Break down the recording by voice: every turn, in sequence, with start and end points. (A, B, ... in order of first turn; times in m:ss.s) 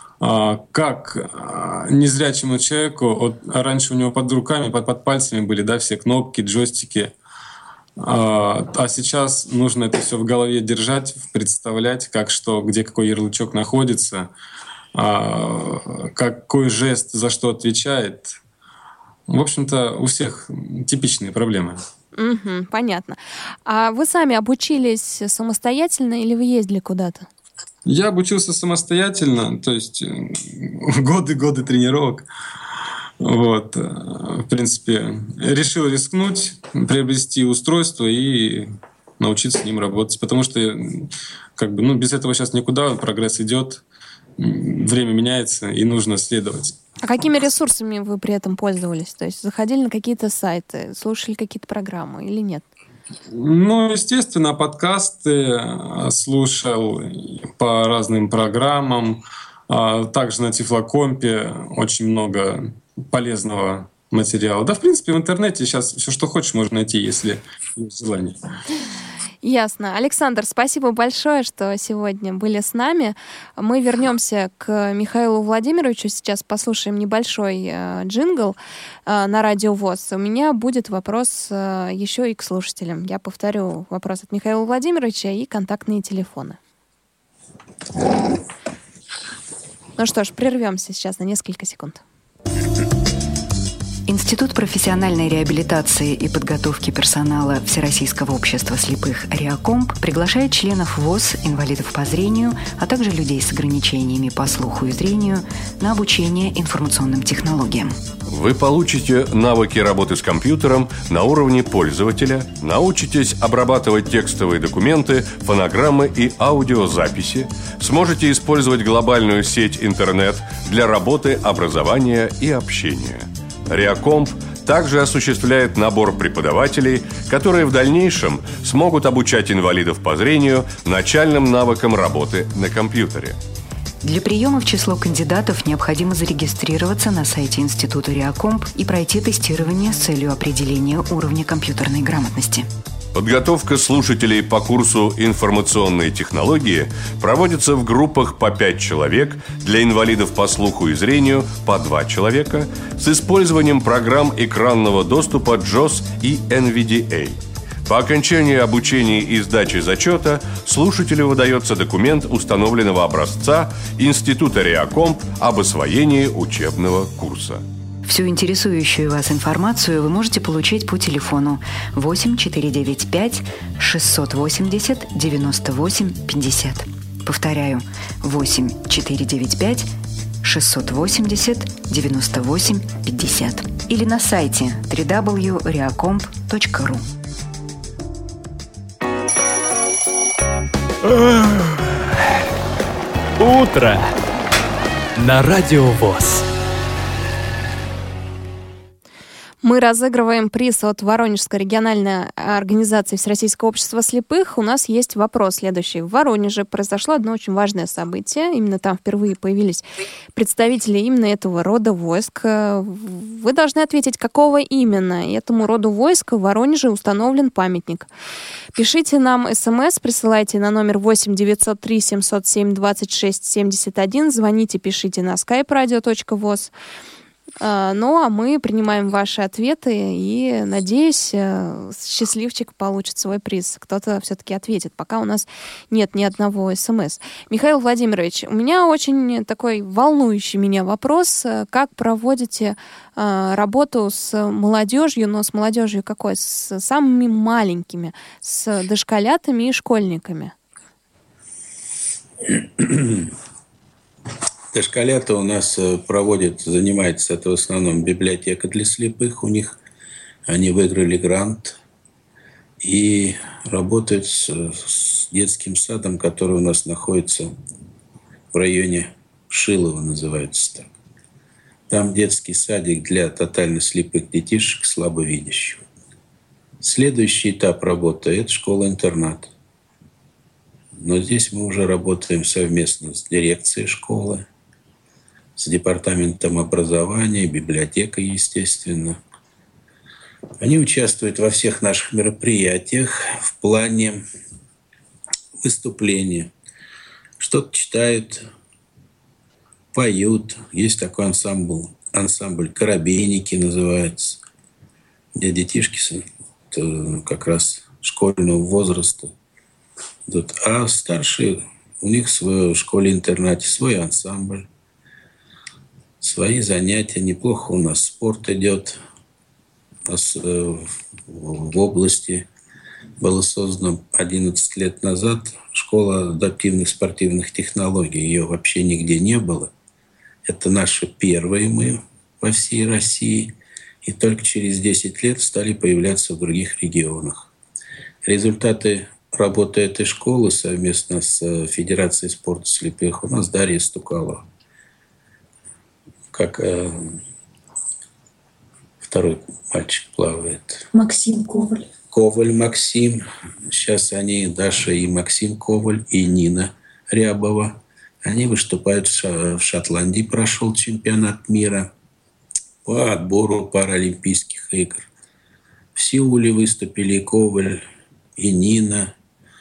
0:00.2-0:07.1 A
0:08.0-0:14.3 A
0:14.9-0:18.4 A
0:19.3-0:21.8 A
0:22.1-0:27.2 B
0:27.8-0:32.2 A
0:33.2-0:43.8 A
0:44.4-0:46.8 A
0:47.0-0:52.6 B
0:53.3-1:08.4 A
1:09.4-1:26.6 B
1:30.0-1:32.0 B
1:34.1-1:48.0 C
1:48.3-2:13.4 D
2:14.0-2:22.7 C
2:23.1-2:47.6 D
2:48.0-2:59.9 C
3:00.4-3:07.0 C
3:11.1-3:11.7 E
3:13.4-3:14.0 E
3:15.2-3:16.4 E
3:19.6-3:29.8 B
3:30.4-3:38.1 B
3:38.8-3:46.7 B
3:47.6-4:10.5 B
4:12.4-4:13.3 F
4:14.7-4:19.8 F
4:20.5-4:21.8 F
4:22.8-4:27.5 F
4:28.5-4:30.9 F
4:31.9-4:35.8 F
4:36.8-4:39.5 F
4:40.9-4:44.4 F
4:45.6-4:49.2 F
4:50.6-4:54.2 F
4:55.6-4:56.5 F
4:57.4-4:58.4 F
4:59.9-5:04.4 F
5:05.3-5:09.3 F
5:10.3-5:14.7 F
5:16.2-5:19.0 F
5:20.0-5:22.5 F
5:23.2-5:29.7 F
5:30.4-5:37.5 F
5:38.2-5:44.4 F
5:46.3-5:47.2 F
5:49.0-5:50.9 F
5:52.1-6:01.9 F
6:02.8-6:05.1 F
6:05.9-6:07.8 F
6:08.4-6:09.1 F